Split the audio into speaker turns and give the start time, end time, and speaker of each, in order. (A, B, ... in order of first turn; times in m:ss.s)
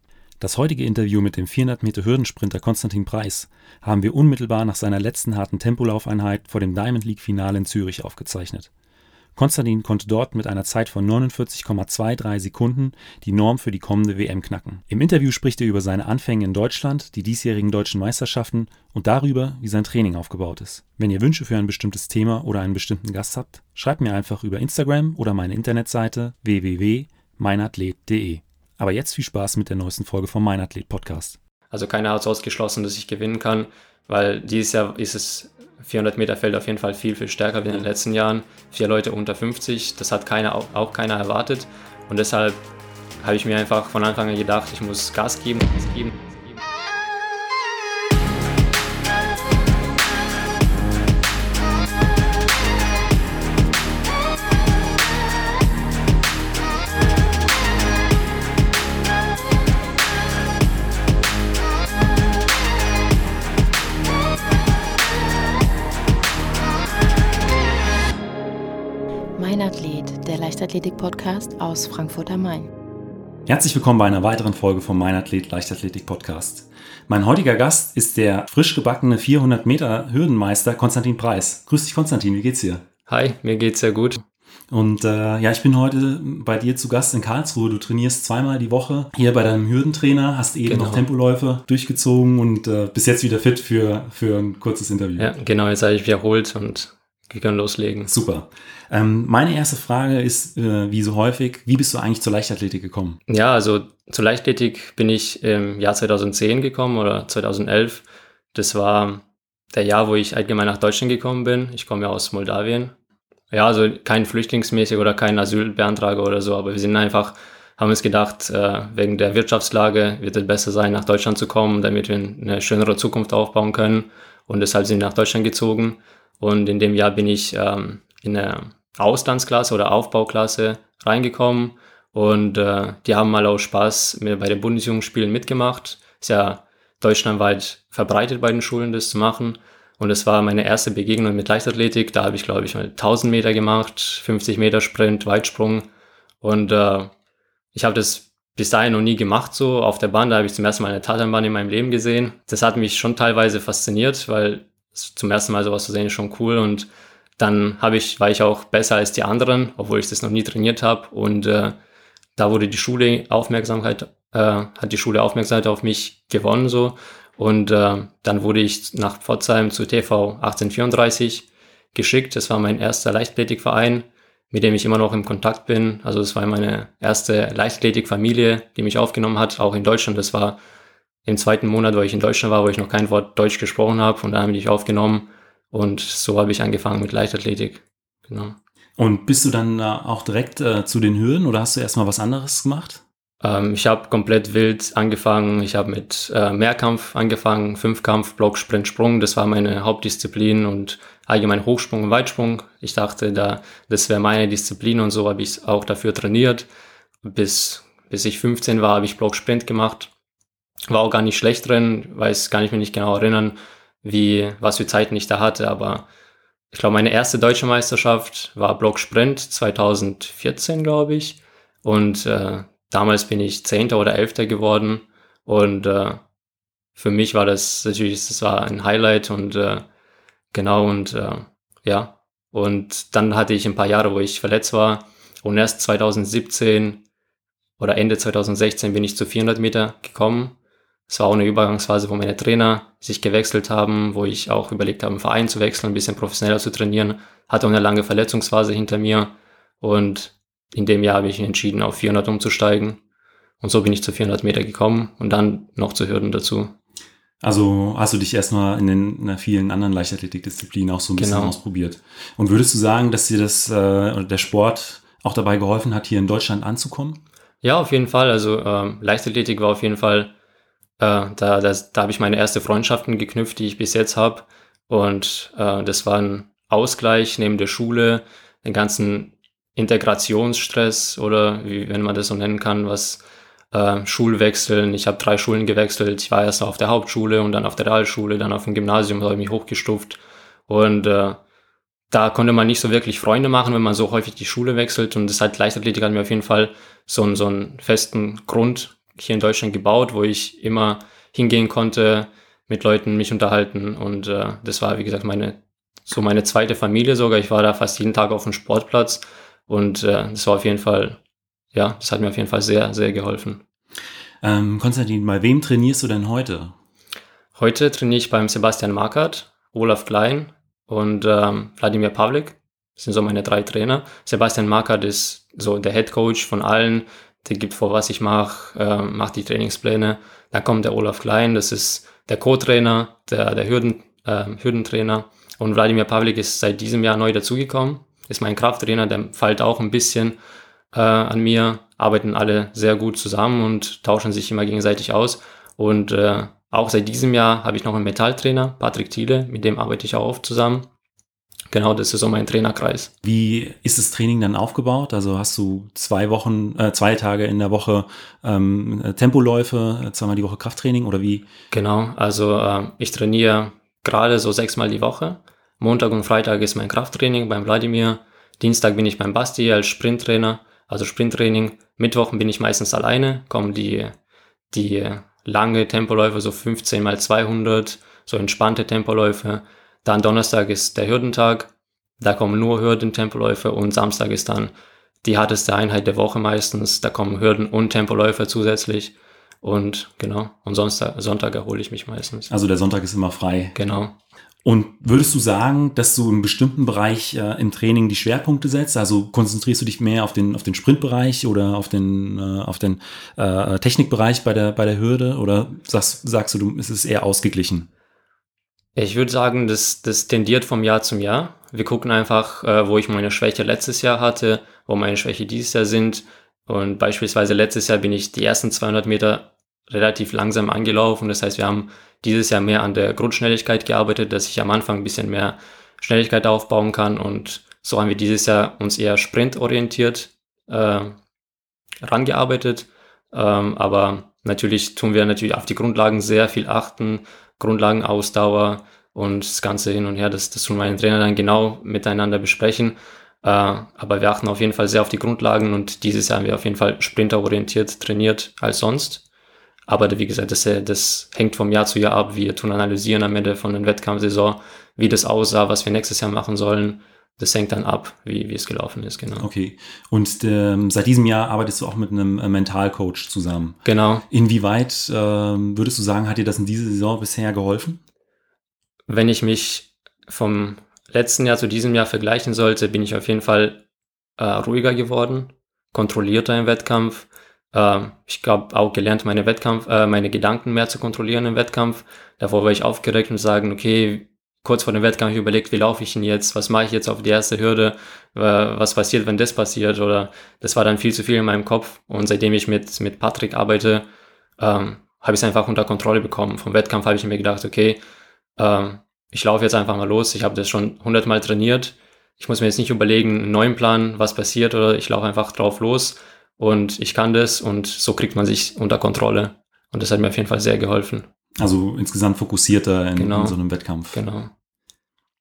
0:00.4-0:08.7 A
0:09.4-0:31.4 A
0:31.7-0:42.7 B
0:43.2-0:46.6 B
1:09.4-1:12.7 C
1:13.5-1:22.8 A
1:23.1-1:24.2 B
1:24.7-1:35.3 A
1:30.7-1:31.1 B
1:35.2-1:38.1 B
1:38.0-1:43.2 A
1:43.3-1:52.9 B
1:53.5-2:25.9 B
2:26.4-2:27.1 B
2:27.7-2:41.8 B
2:42.4-3:00.6 B
3:01.2-3:08.6 B
3:09.0-3:13.0 A
3:13.4-3:26.7 B
3:27.2-3:30.1 B
3:30.9-3:36.1 B
3:36.7-3:46.2 B
3:47.0-3:49.8 B
3:50.5-3:57.0 B
3:57.8-4:00.6 B
4:01.1-4:13.0 B
4:13.6-4:16.7 B
4:17.4-4:27.2 A
4:21.2-4:21.5 B
4:27.6-4:30.3 B
4:31.0-4:51.4 B
4:52.1-5:11.2 B
5:11.7-5:13.6 B
5:14.4-5:16.7 A
5:17.6-5:40.4 B
5:40.9-5:50.9 B
5:51.7-5:53.1 B
5:53.2-6:01.5 A
6:01.7-6:14.2 B
6:14.7-6:24.7 B
6:25.2-6:32.5 B
6:32.5-6:33.8 A
6:33.7-6:34.2 B
6:34.6-6:47.9 A
6:49.0-7:11.2 B
7:12.0-7:29.2 B
7:29.9-7:39.5 B
7:39.4-7:43.8 A
7:43.8-7:44.2 B
7:44.3-7:48.0 A
7:49.1-7:53.8 B
7:54.4-8:14.1 B
8:14.6-8:18.0 B
8:18.6-8:31.2 B
8:31.6-8:34.2 A
8:33.2-8:33.6 B
8:34.1-8:34.5 B